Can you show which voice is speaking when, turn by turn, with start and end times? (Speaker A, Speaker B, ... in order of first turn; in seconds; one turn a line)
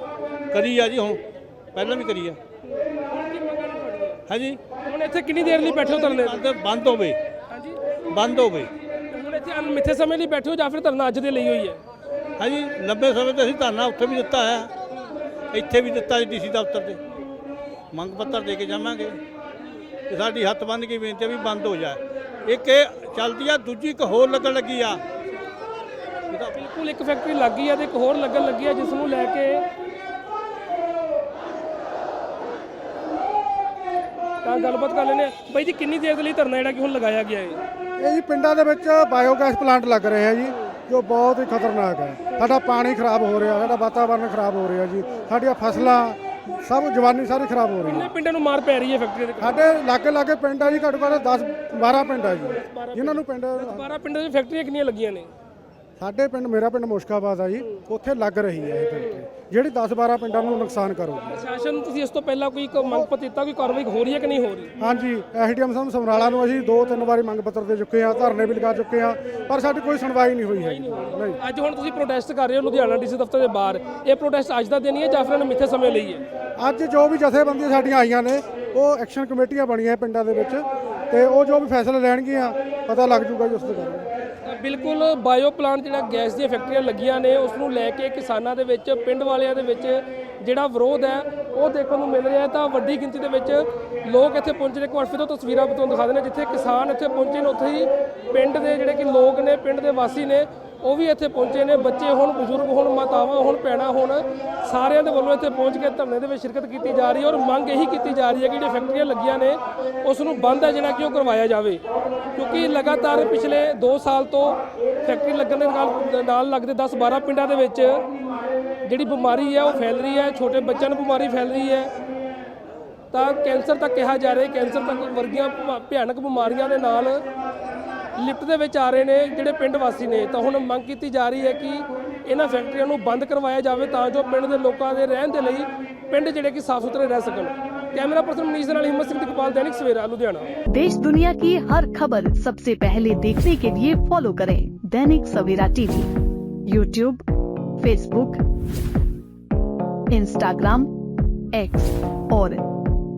Speaker A: 0.5-1.2
Speaker A: 1.7-2.4
Speaker B: 2.8-4.2
Speaker A: 4.3-4.6
Speaker B: 4.8-6.5
Speaker A: 5.5-7.2
Speaker B: 7.5-7.8
Speaker A: 8.1-8.7
Speaker B: 9.1-11.8
Speaker A: 12.4-14.7
Speaker A: 15.5-17.0
Speaker A: 17.9-19.2
Speaker A: 20.1-25.0
Speaker A: 26.3-26.6
Speaker B: 26.5-29.6
Speaker B: 34.4-37.6
Speaker C: 38.0-48.1
Speaker B: 47.9-49.5
Speaker C: 49.4-53.9
Speaker B: 52.5-55.3
Speaker C: 56.0-61.3
Speaker B: 61.2-64.7
Speaker C: 64.8-71.4
Speaker B: 71.4-76.2
Speaker C: 76.6-84.1
Speaker B: 84.4-111.8
Speaker B: 112.3-118.0
Speaker B: 118.8-121.9
Speaker B: 123.1-127.2
Speaker B: 128.2-140.5
Speaker D: 140.7-146.1
Speaker D: 146.7-147.2
Speaker D: 147.8-148.4
Speaker D: 150.1-150.9
Speaker D: 151.5-152.6